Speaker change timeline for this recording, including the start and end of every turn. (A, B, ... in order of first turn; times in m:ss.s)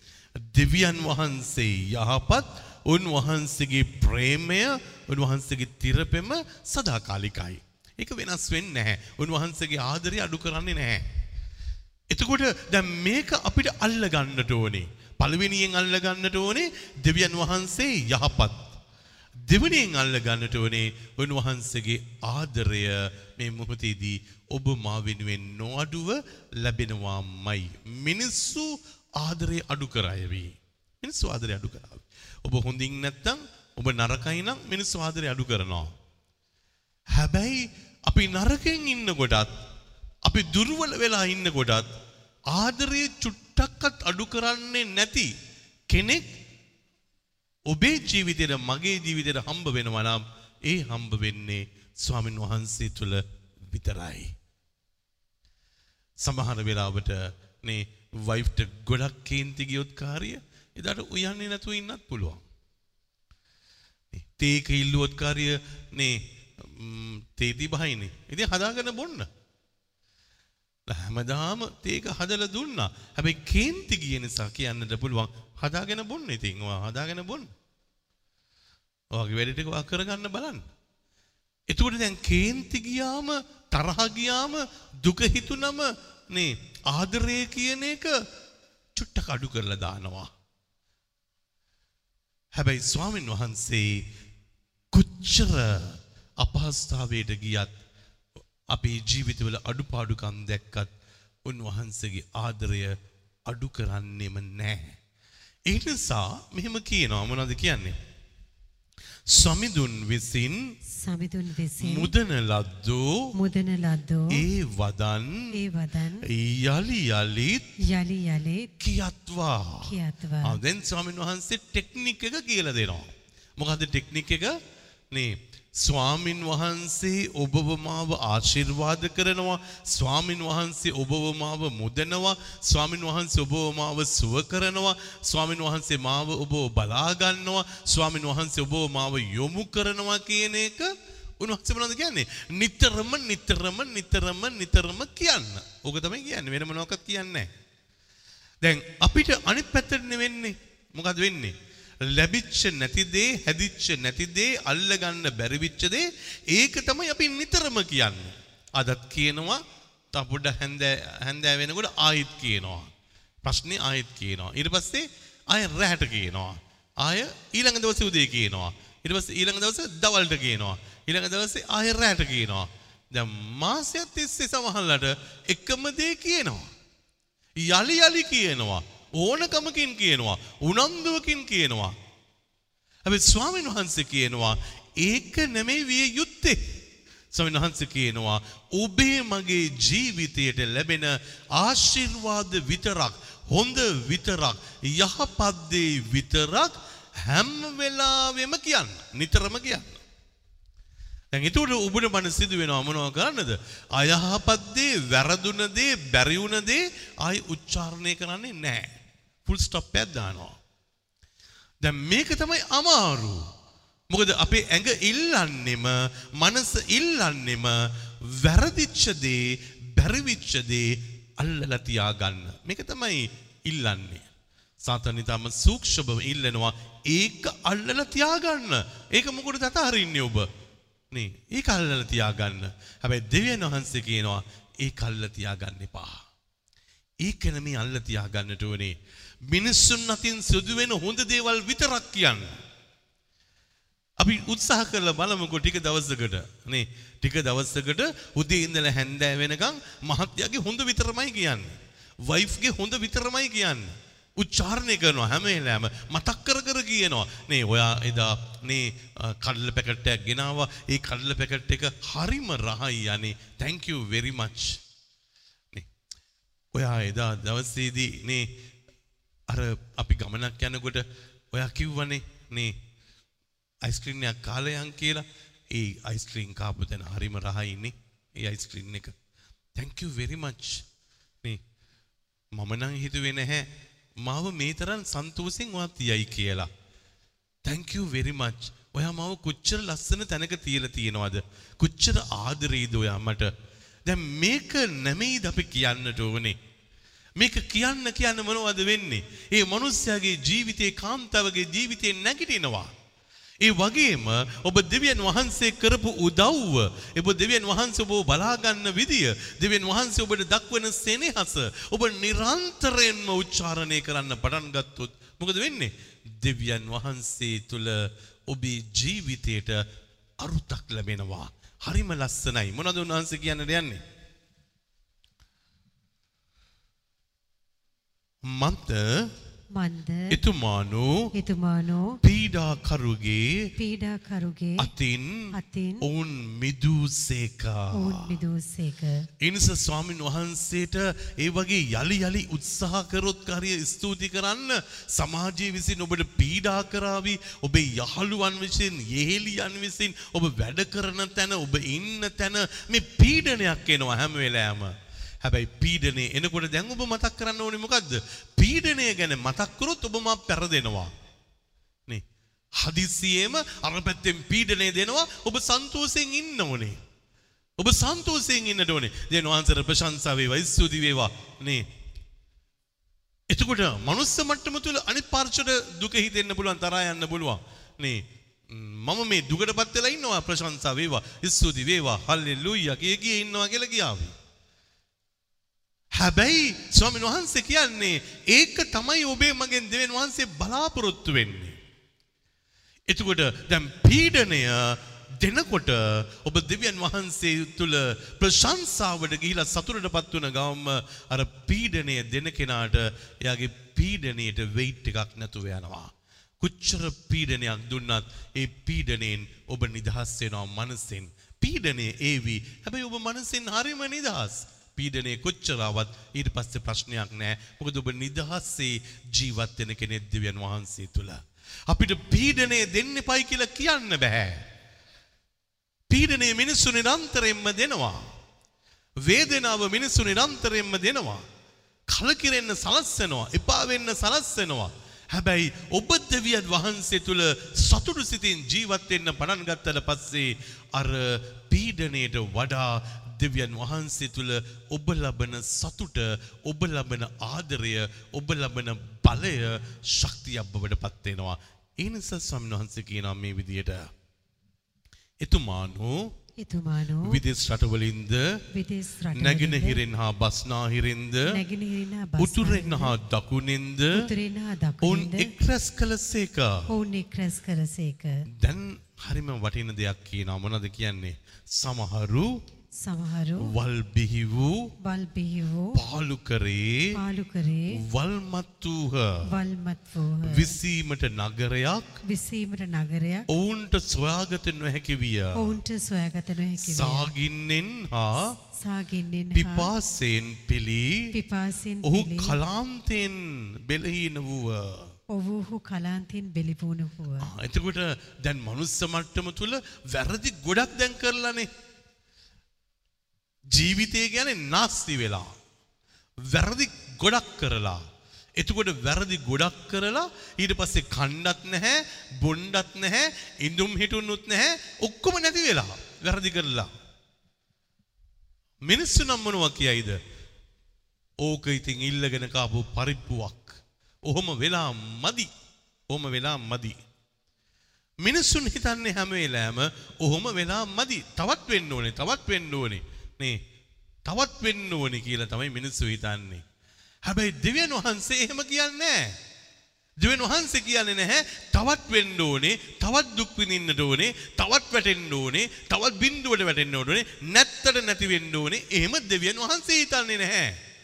0:00.4-0:11.1 A
0:12.1-0:18.7 A
0:19.4-0:35.9 A
0:37.1-0:39.5 A
0:40.2-0:41.9 A
0:42.5-0:45.3 A
0:45.9-0:46.3 A
0:47.7-0:54.4 A
0:56.2-1:02.4 A
1:04.1-1:09.3 A
1:10.9-1:17.5 A
1:19.1-1:20.6 A
1:21.7-1:28.2 A
1:28.9-1:30.3 A
1:32.6-1:34.0 A
1:34.9-1:37.7 A
1:38.7-1:40.9 A
1:41.4-1:45.0 A
1:45.7-1:48.0 A
1:49.3-1:50.7 A
1:51.0-1:52.1 B
1:51.8-1:53.3 A
1:53.4-1:54.4 B
1:54.3-1:55.6 A
1:55.5-1:56.3 B
1:56.3-1:57.7 A
1:57.8-1:58.7 B
1:58.8-2:04.6 A
1:59.8-2:00.6 B
2:05.1-2:27.5 A
2:28.6-2:42.9 A
2:43.4-2:56.7 A
2:57.6-3:02.0 A
3:03.0-3:06.7 A
3:07.3-3:20.0 A
3:21.3-3:28.9 A
3:29.5-3:30.6 A
3:31.8-3:33.4 A
3:34.1-3:44.3 A
3:44.8-3:50.5 A
3:51.1-3:56.2 A
3:57.2-4:02.6 A
4:04.2-4:24.8 A
4:26.7-4:28.5 A
4:29.5-4:32.8 A
4:33.8-4:39.2 A
4:39.8-4:40.8 A
4:42.5-4:46.7 A
4:47.6-4:53.5 A
4:54.0-4:56.6 A
4:57.4-5:02.9 A
5:03.6-5:19.8 A
5:20.4-5:24.0 A
5:28.4-5:29.3 A
5:29.7-5:30.4 B
5:30.3-5:31.3 A
5:31.3-5:32.2 B
5:32.2-5:33.7 A
5:33.8-5:34.9 B
5:34.8-5:38.3 A
5:35.5-5:36.1 B
5:37.9-5:39.3 B
5:39.4-6:01.1 A
6:02.8-6:07.0 A
6:07.8-6:11.9 A
6:13.5-6:24.4 A
6:26.1-6:31.8 A
6:33.1-7:04.6 A
7:06.1-7:08.3 A
7:09.2-7:11.4 A
7:12.1-7:34.1 A
7:35.4-7:36.3 A
7:36.6-7:37.4 B
7:37.2-7:38.6 A
7:38.7-7:40.0 B
7:39.4-7:41.6 A
7:41.5-7:43.2 B
7:42.4-7:44.3 A
7:44.1-7:45.5 B
7:45.0-7:46.9 A
7:46.9-7:48.4 B
7:48.5-7:52.6 A
7:53.0-7:53.7 B
7:53.6-7:54.9 A
7:55.0-7:56.0 B
7:55.9-7:57.2 A
7:57.2-7:58.0 B
7:57.9-7:59.4 A
7:59.5-8:00.8 B
8:00.4-8:02.2 A
8:02.2-8:03.5 B
8:03.5-8:05.8 A
8:05.6-8:07.3 B
8:06.8-8:08.6 A
8:08.8-8:09.9 B
8:09.5-8:11.3 A
8:11.3-8:12.6 B
8:12.0-8:15.2 A
8:15.3-8:17.5 B
8:17.4-8:21.7 A
8:23.7-8:25.5 A
8:26.4-8:36.9 A
8:38.8-8:40.2 A
8:41.4-8:45.5 A
8:46.1-8:47.0 A
8:48.2-8:53.6 A
8:54.2-8:56.6 A
8:57.2-8:59.4 A
9:00.2-9:10.8 A